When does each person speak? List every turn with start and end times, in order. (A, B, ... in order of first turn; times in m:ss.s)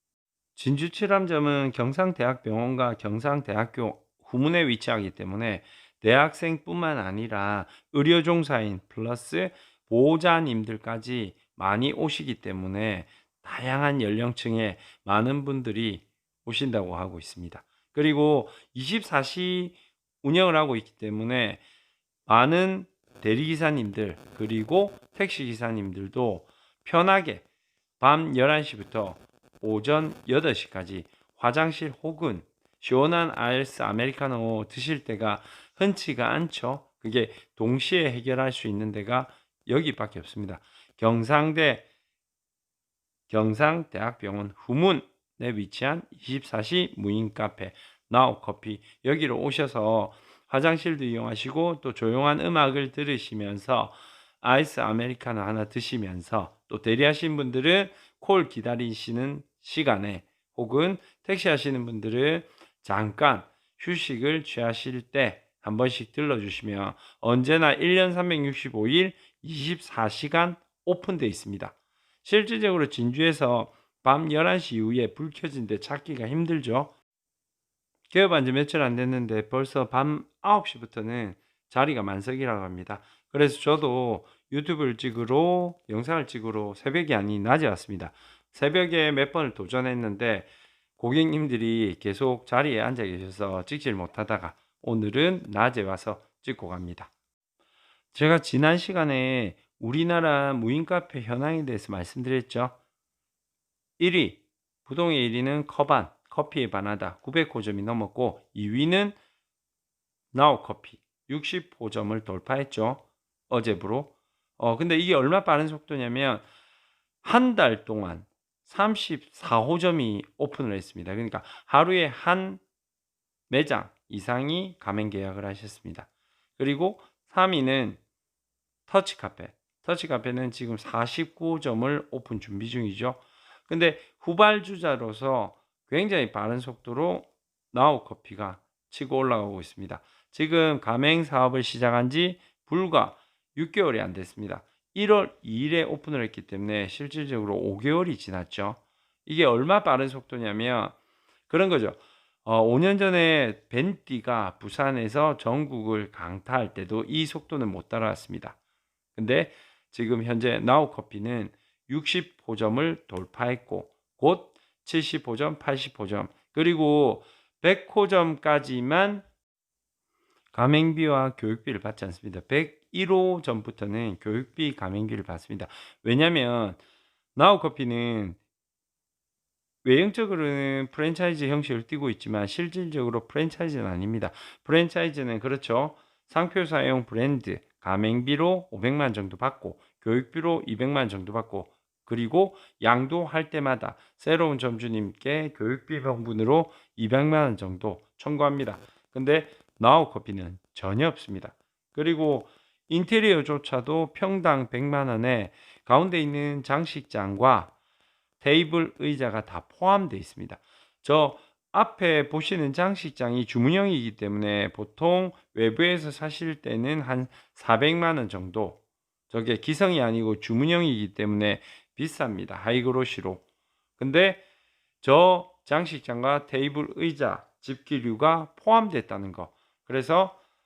0:00.6-0:21.6 A
0:22.3-0:27.4 A
0:28.0-0:41.8 A
0:43.3-1:16.9 A
1:18.1-1:37.1 A
1:38.1-1:42.8 A
1:44.0-1:49.2 A
1:50.3-1:56.4 A
1:57.2-2:02.6 A
2:03.5-2:08.0 A
2:08.9-2:31.0 A
2:31.5-2:38.6 A
2:39.2-2:49.2 A
2:50.5-2:56.8 A
2:57.4-2:58.4 A
2:59.8-3:27.7 A
3:28.4-3:43.4 A
3:44.0-3:44.4 A
3:45.0-3:50.4 A